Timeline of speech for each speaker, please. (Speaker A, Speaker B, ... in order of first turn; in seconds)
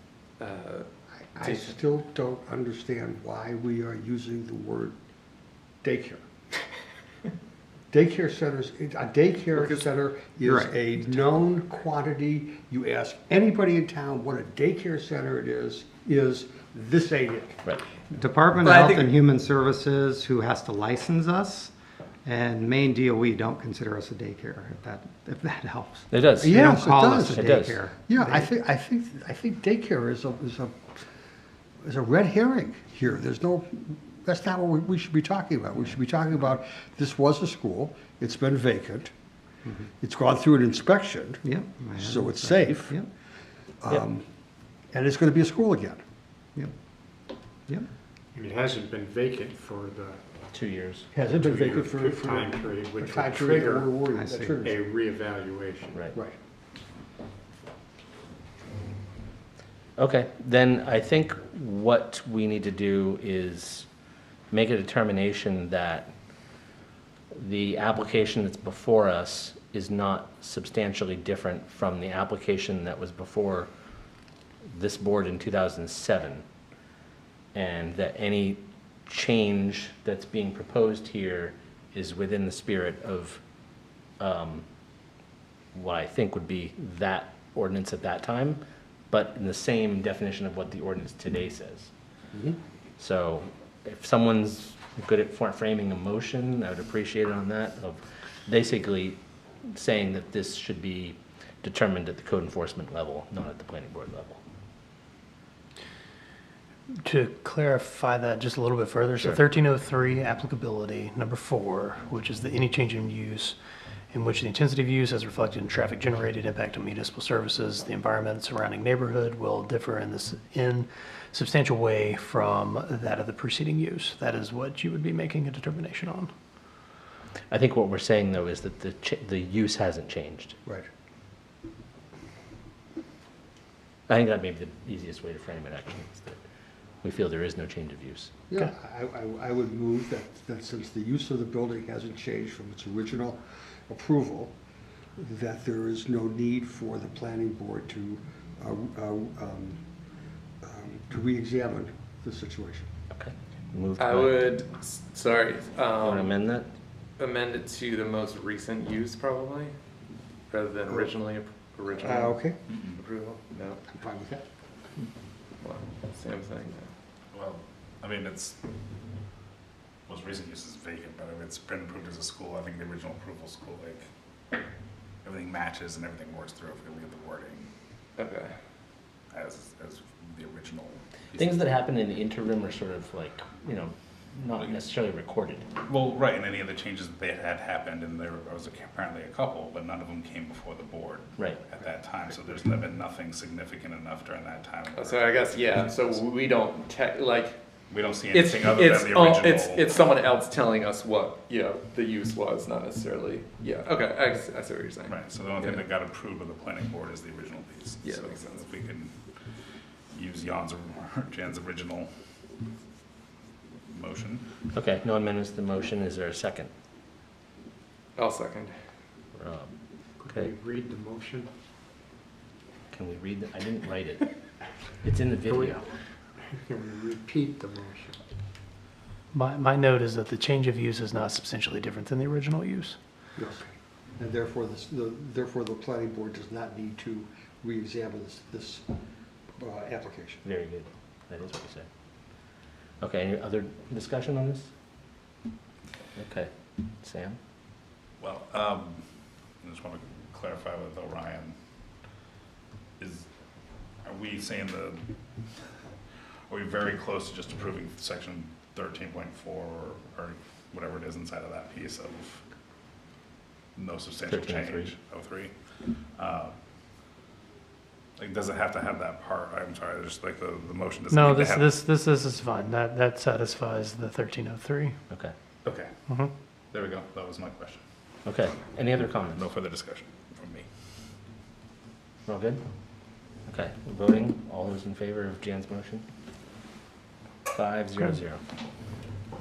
Speaker A: 0.4-0.9, 1.4-1.7, 18.6-19.1, 154.0-156.3, 157.2-159.7, 160.5-163.8, 165.6-166.9, 178.2-178.5, 194.9-197.6, 198.3-205.8, 208.0-208.7, 218.2-218.8
Speaker B: 1.4-4.9, 5.8-6.2, 7.9-17.7, 26.4-31.0, 31.8-39.1, 40.0-41.4, 42.0-43.0, 43.8-44.2, 44.9-46.0, 51.1-54.8, 92.3-92.6, 138.5-144.5, 145.2-149.8, 150.6-152.9, 162.0-162.6, 163.9-164.4, 233.3-238.9, 239.6-240.4
Speaker C: 10.4-10.8, 18.1-21.7, 22.2-28.5, 41.4-43.1, 54.1-54.6
Speaker D: 26.1-26.6, 27.4-27.8, 50.5-51.1, 60.0-63.9, 64.5-66.1, 67.3-73.7, 74.7-76.4, 77.5-83.4, 84.2-84.6, 85.7-91.9, 93.0-99.2, 99.7-104.4, 127.5-130.6, 134.1-136.4, 137.0-138.3, 153.1-154.5, 156.0-156.7, 181.3-185.7, 214.7-216.7, 219.3-219.7, 220.2-220.5, 222.9-224.3, 225.0-225.9, 240.4-242.4, 243.0-244.7, 246.2-247.4, 264.2-264.9, 278.2-279.5, 282.2-282.6, 283.5-286.0, 287.5-288.4
Speaker E: 48.3-50.2, 51.3-54.0, 54.6-56.0, 220.2-221.5, 225.5-225.8, 226.7-228.2
Speaker F: 106.9-113.6, 114.1-126.3, 229.3-233.0, 271.1-275.0, 276.1-276.3
Speaker G: 162.7-163.0, 167.3-168.6, 170.1-174.0, 175.2-177.7, 179.3-181.5, 185.8-196.0, 197.9-200.0, 205.1-209.1, 210.1-212.1, 213.9-214.5, 248.2-249.0, 249.6-251.6, 253.0-253.3, 254.0-255.0, 256.5-262.4, 263.8-266.5, 268.2-271.7, 275.6-275.9, 276.7-277.8, 279.2-280.6